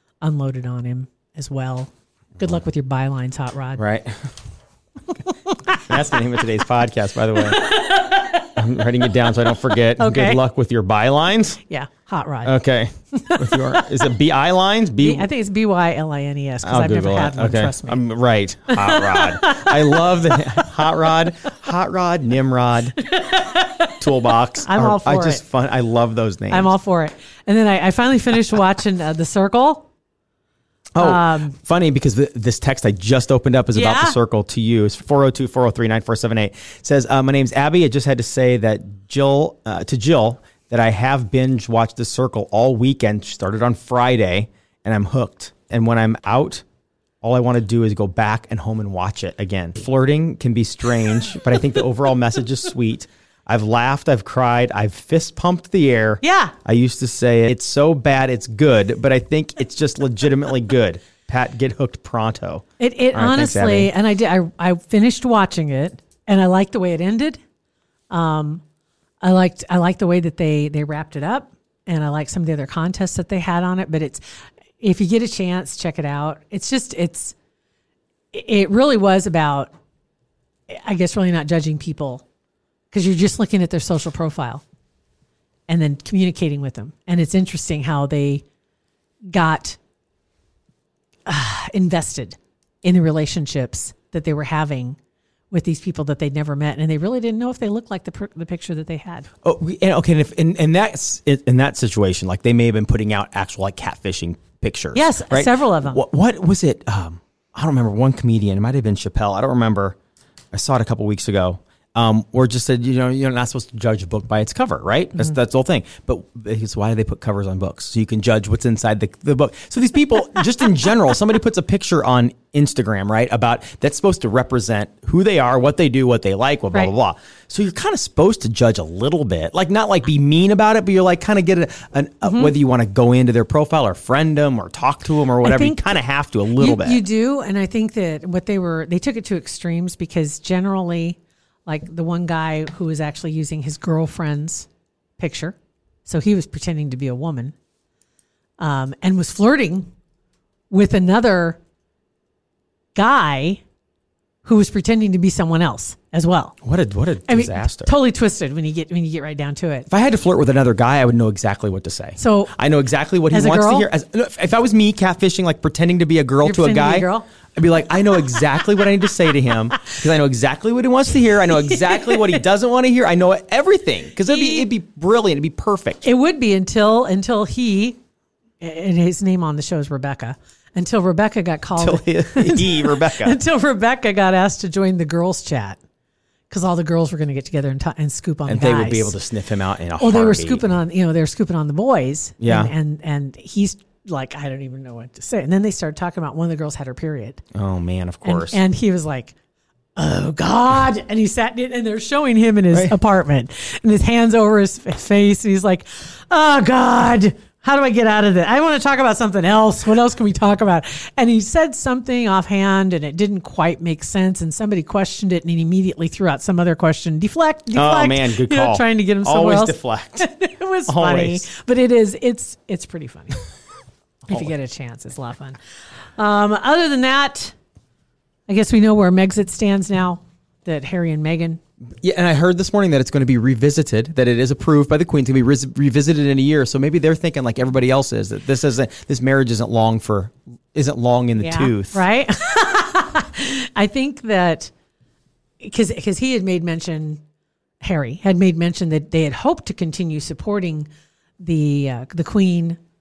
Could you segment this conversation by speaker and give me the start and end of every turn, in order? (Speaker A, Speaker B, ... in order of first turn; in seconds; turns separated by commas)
Speaker A: 0.2-3.8, Speaker B: 3.8-4.3, Speaker B: 5.8-7.8, Speaker A: 7.4-8.5, Speaker B: 8.6-11.6, Speaker A: 10.0-10.4, Speaker A: 11.7-12.6, Speaker B: 12.4-15.3, Speaker A: 13.1-13.9, Speaker A: 15.0-18.1, Speaker B: 16.6-23.0, Speaker A: 18.7-20.7, Speaker A: 23.0-25.4, Speaker B: 24.0-26.7, Speaker A: 26.5-29.9, Speaker B: 30.9-46.6, Speaker A: 31.0-31.6, Speaker A: 33.7-34.2, Speaker B: 47.2-63.9, Speaker A: 56.2-56.5, Speaker A: 62.8-67.4, Speaker A: 68.1-68.6, Speaker A: 69.2-74.2, Speaker A: 74.8-77.3, Speaker A: 78.3-79.7, Speaker A: 80.7-82.2, Speaker A: 82.9-84.6, Speaker A: 85.7-88.4, Speaker A: 89.3-89.8, Speaker A: 91.3-95.0, Speaker A: 95.5-99.3, Speaker B: 99.4-110.0, Speaker A: 105.0-106.0, Speaker B: 110.5-137.0, Speaker A: 132.2-132.5, Speaker A: 135.4-136.0, Speaker A: 136.6-144.7, Speaker A: 145.2-147.5, Speaker A: 148.6-149.9, Speaker A: 150.7-151.6, Speaker A: 152.9-153.6, Speaker A: 154.4-156.6, Speaker B: 156.6-157.9, Speaker A: 157.3-159.9, Speaker B: 159.9-176.1, Speaker A: 162.2-162.5, Speaker A: 163.3-163.9, Speaker A: 166.4-167.3, Speaker A: 171.7-172.4, Speaker A: 174.3-174.7, Speaker A: 176.0-178.0, Speaker A: 178.6-185.8, Speaker B: 181.8-183.4, Speaker A: 186.5-189.2, Speaker B: 188.5-190.7, Speaker A: 190.0-197.4, Speaker B: 192.4-192.7, Speaker B: 197.5-198.6, Speaker A: 198.2-199.3, Speaker A: 200.0-223.4, Speaker B: 217.7-220.3, Speaker B: 220.9-221.5, Speaker A: 224.3-225.6, Speaker A: 226.2-227.6, Speaker A: 228.5-231.6, Speaker B: 232.0-242.0, Speaker A: 241.4-244.7, Speaker A: 245.6-247.2, Speaker A: 247.8-250.9, Speaker A: 251.4-252.8